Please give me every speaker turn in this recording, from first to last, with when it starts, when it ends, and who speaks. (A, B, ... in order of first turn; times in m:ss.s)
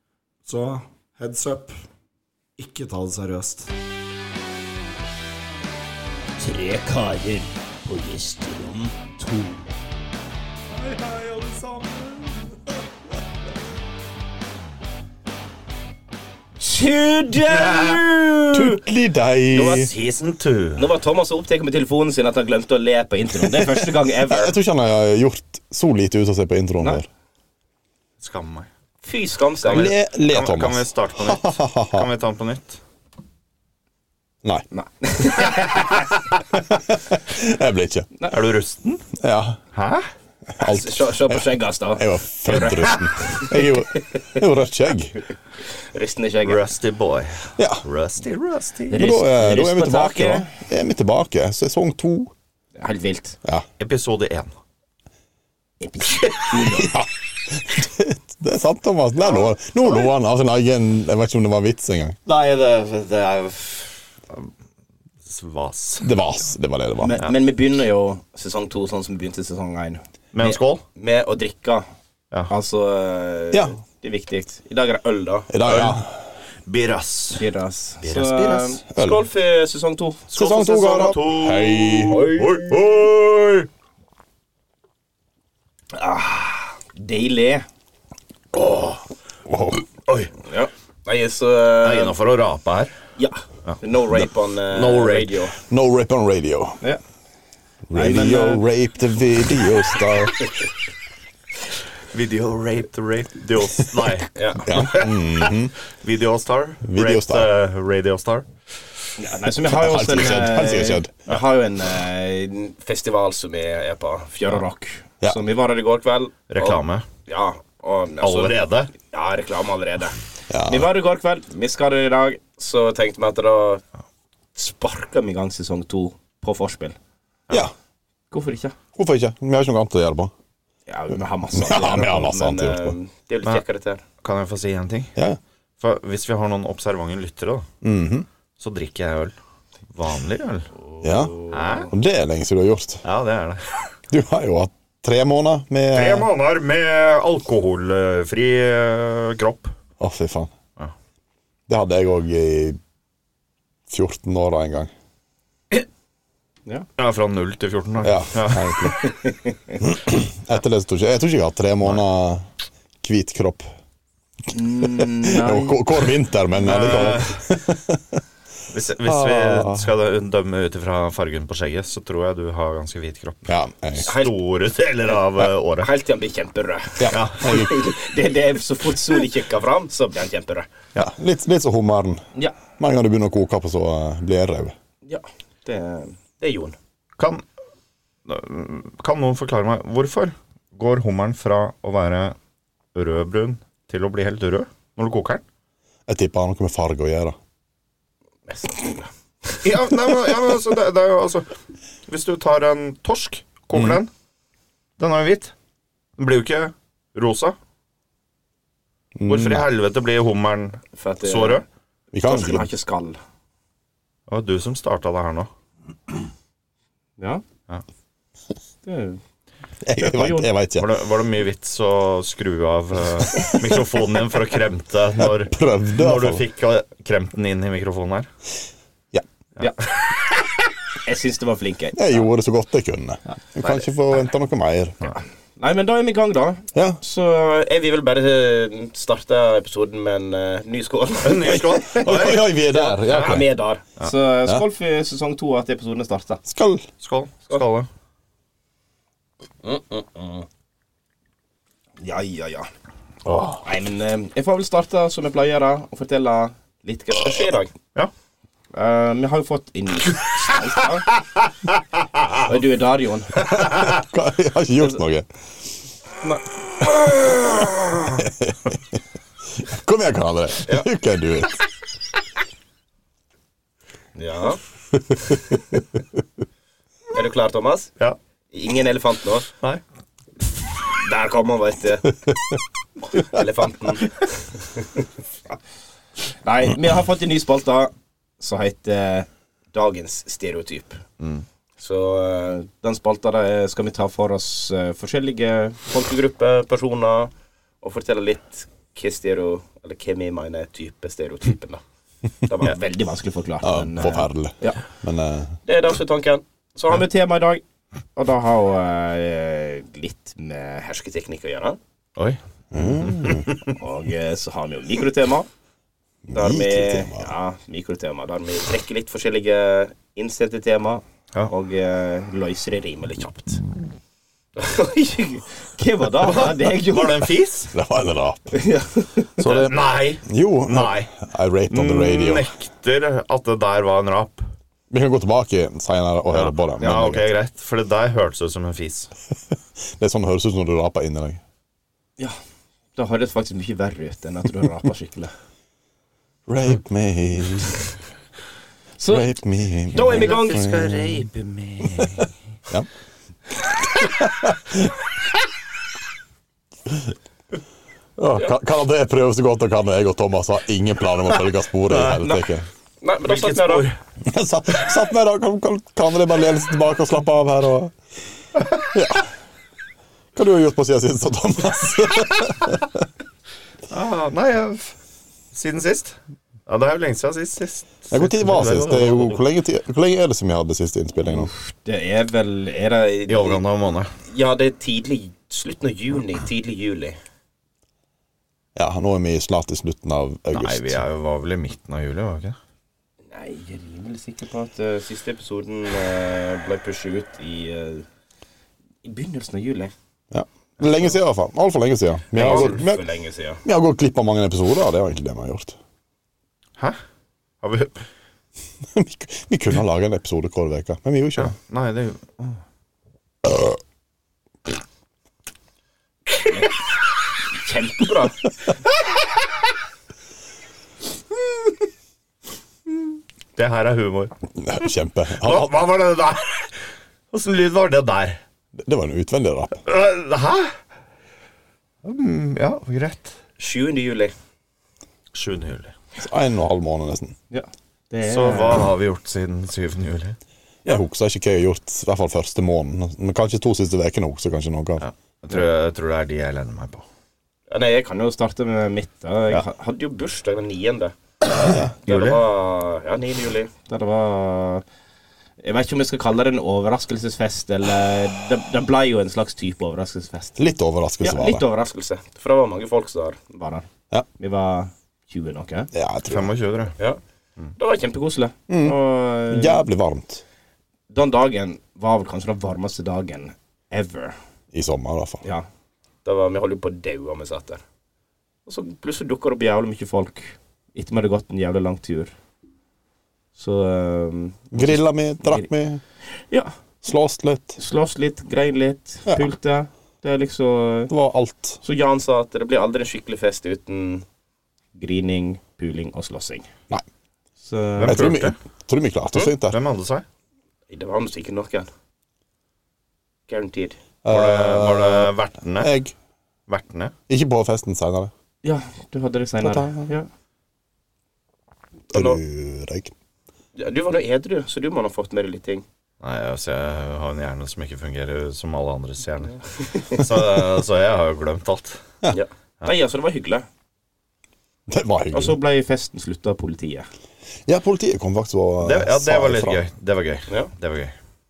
0:00.5-0:01.8 A
0:02.6-0:03.7 A
0:06.4-0:09.7 B
0:16.6-0:18.8 B
0:18.5-0:19.9 C
0:19.5-0:19.9 B
0:19.6-0:20.8 D
0:20.8-0:24.6 B
0:23.4-0:27.1 C
0:28.2-0:28.7 D
0:29.0-0:29.9 B
0:29.7-0:32.1 C
0:29.7-0:32.8 D
0:34.7-0:36.1 B
0:36.7-0:38.1 C
0:38.3-0:39.1 D
0:39.2-0:39.6 C
0:39.7-0:40.1 D
0:40.5-0:45.2 C
0:40.6-0:44.3 B
0:45.7-0:46.6 B
0:46.4-0:49.1 D
0:47.6-0:47.8 C
0:48.9-0:50.5 B
0:48.9-0:52.3 C
0:52.8-0:53.4 B
0:53.8-0:54.5 D
0:55.8-0:56.9 B
0:56.6-1:02.2 C
1:02.2-1:04.5 D
1:05.2-1:06.1 D
1:06.0-1:07.2 C
1:07.0-1:11.8 B
1:10.3-1:10.8 D
1:12.5-1:15.5 B
1:15.5-1:16.2 C
1:15.6-1:16.0 D
1:16.6-1:17.4 D
1:17.4-1:20.3 B
1:18.0-1:18.8 D
1:18.9-1:19.2 C
1:20.3-1:23.7 D
1:20.3-1:22.2 C
1:22.1-1:22.6 B
1:25.9-1:27.6 B
1:28.5-1:29.0 D
1:29.5-1:29.8 C
1:30.4-1:32.2 B
1:31.8-1:32.9 D
1:33.2-1:35.6 B
1:34.7-1:35.3 D
1:35.7-1:36.8 C
1:37.9-1:40.5 C
1:37.9-1:38.6 B
1:42.1-1:44.3 D
1:44.3-1:45.1 B
1:44.6-1:45.7 C
1:45.8-1:48.5 D
1:46.8-1:47.5 C
1:49.2-2:03.8 B
1:49.6-1:51.1 C
1:56.5-1:57.1 D
1:58.2-1:58.9 D
2:00.5-2:00.9 C
2:04.5-2:07.0 B
2:08.3-2:08.8 B
2:08.9-2:10.3 C
2:10.9-2:14.0 B
2:11.6-2:13.0 C
2:14.2-2:15.1 D
2:15.8-2:17.7 D
2:17.8-2:18.3 C
2:18.6-2:19.3 D
2:19.9-2:20.7 D
2:21.0-2:21.8 B
2:21.0-2:21.4 C
2:21.5-2:21.9 D
2:21.9-2:23.0 C
2:23.0-2:23.9 D
2:24.1-2:26.3 C
2:25.9-2:29.7 D
2:30.0-2:30.5 C
2:31.7-2:32.8 C
2:33.9-2:34.9 C
2:37.0-2:39.0 D
2:38.0-2:39.0 C
2:39.0-2:39.8 B
2:39.8-2:42.5 C
2:43.0-2:43.7 C
2:44.5-2:46.0 B
2:45.0-2:48.2 C
2:46.6-2:47.4 D
2:48.7-2:55.9 D
2:49.0-2:49.9 C
2:53.5-2:54.1 C
2:54.0-2:54.3 B
2:55.8-3:00.7 B
2:57.0-2:57.8 C
2:57.1-2:57.6 D
3:01.0-3:04.8 C
3:05.0-3:06.8 B
3:07.2-3:07.4 D
3:08.2-3:12.4 D
3:12.9-3:15.4 D
3:16.1-3:17.4 C
3:18.4-3:19.6 B
3:19.6-3:21.5 D
3:22.1-3:24.1 D
3:23.7-3:24.0 C
3:25.0-3:25.5 D
3:26.2-3:27.6 D
3:29.2-3:29.7 C
3:29.2-3:31.6 D
3:30.9-3:31.6 B
3:32.1-3:32.7 C
3:32.2-3:33.2 B
3:34.3-3:35.5 D
3:37.2-3:37.4 B
3:38.8-3:39.2 B
3:39.8-3:40.9 C
3:40.0-3:40.5 B
3:40.8-3:48.3 D
3:45.2-3:46.4 C
3:51.0-3:52.3 B
3:51.9-3:55.0 C
3:55.6-4:06.4 B
3:56.7-3:57.0 C
4:01.2-4:02.5 D
4:01.9-4:03.4 C
4:03.1-4:03.4 D
4:06.4-4:06.9 C
4:07.0-4:07.9 D
4:09.6-4:10.5 B
4:12.0-4:12.7 B
4:13.6-4:17.7 B
4:18.7-4:21.1 B
4:22.4-4:23.4 B
4:23.7-4:25.3 C
4:28.2-4:28.8 C
4:29.6-4:31.6 C
4:34.1-4:34.6 B
4:37.1-4:37.9 B
4:38.5-4:39.5 B
4:40.9-4:42.2 B
4:43.1-4:45.1 B
4:46.3-4:51.0 B
4:51.2-4:51.4 D
4:51.8-5:01.8 B
5:02.4-5:04.8 B
5:03.6-5:05.5 C
5:05.6-5:07.6 B
5:08.1-5:11.8 B
5:12.7-5:13.5 C
5:13.0-5:13.6 D
5:13.6-5:15.5 B
5:16.2-5:17.3 C
5:16.3-5:23.6 B
5:24.6-5:27.2 B
5:26.2-5:27.7 D
5:27.7-5:28.5 C
5:28.5-5:29.4 B
5:29.4-5:31.2 D
5:29.4-5:32.5 C
5:31.7-5:34.5 D
5:34.9-5:37.3 C
5:36.3-5:39.1 D
5:39.9-5:41.4 C
5:43.0-5:45.3 B
5:46.5-5:47.8 C
5:49.0-5:49.3 B
5:49.1-5:51.2 C
5:49.9-5:50.9 B
5:49.9-5:52.3 D
5:53.9-5:54.9 C
5:58.2-6:02.7 C
6:02.1-6:02.4 B
6:03.0-6:03.9 B
6:03.2-6:04.0 D
6:04.2-6:07.9 C
6:08.9-6:09.3 C
6:10.3-6:13.0 C
6:13.9-6:14.9 D
6:15.5-6:19.4 D
6:18.1-6:21.5 C
6:21.2-6:23.6 B
6:23.3-6:24.1 D
6:24.2-6:27.2 B
6:28.8-6:31.0 C
6:30.5-6:32.6 D
6:33.3-6:38.1 B
6:39.0-6:39.9 B
6:40.3-6:43.0 C
6:42.3-6:43.6 B
6:42.4-6:42.7 D
6:43.6-6:45.8 C
6:47.6-6:48.0 D
6:48.9-6:51.5 C
6:51.4-6:52.6 D
6:53.4-6:53.7 C
6:57.5-6:58.4 B
7:03.6-7:04.3 D
7:04.6-7:05.7 C
7:05.4-7:06.8 D
7:07.3-7:08.4 D
7:08.8-7:09.8 C
7:09.8-7:10.7 D
7:12.0-7:13.4 D
7:13.6-7:14.3 B
7:15.3-7:15.9 D
7:16.2-7:17.4 C
7:17.5-7:18.9 B
7:18.2-7:20.4 D
7:20.8-7:25.0 C
7:25.0-7:27.0 D
7:27.7-7:31.1 B
7:31.6-7:32.4 D
7:32.0-7:34.8 B
7:35.6-7:40.6 B
7:40.6-7:41.6 C
7:41.2-7:45.9 B
7:45.9-7:46.5 C
7:46.2-7:47.0 D
7:47.8-7:49.8 B
7:48.7-7:49.0 C
7:49.5-7:50.4 C
7:51.1-7:54.4 B
7:54.7-7:55.4 C
7:56.2-7:57.8 B
7:58.6-8:02.3 B
8:03.6-8:05.7 B
8:04.7-8:06.0 C
8:06.3-8:06.7 B
8:07.0-8:07.8 C
8:07.8-8:11.1 B
8:11.1-8:11.8 C
8:11.8-8:14.2 B
8:14.9-8:16.7 B
8:17.6-8:18.3 B
8:18.0-8:18.6 D
8:18.0-8:19.8 C
8:19.7-8:20.2 D
8:20.9-8:21.9 B
8:23.5-8:24.0 B
8:24.2-8:26.1 C
8:24.3-8:25.9 D
8:26.7-8:27.1 D
8:27.3-8:28.3 C
8:28.6-8:30.3 B
8:29.6-8:30.0 C
8:32.1-8:32.4 B
8:32.1-8:33.1 C
8:33.7-8:35.8 B
8:36.2-8:42.0 D
8:39.8-8:40.2 B
8:42.3-8:43.7 B
8:44.9-8:45.6 C
8:45.3-8:47.1 B
8:47.6-8:49.8 C
8:48.8-8:51.1 D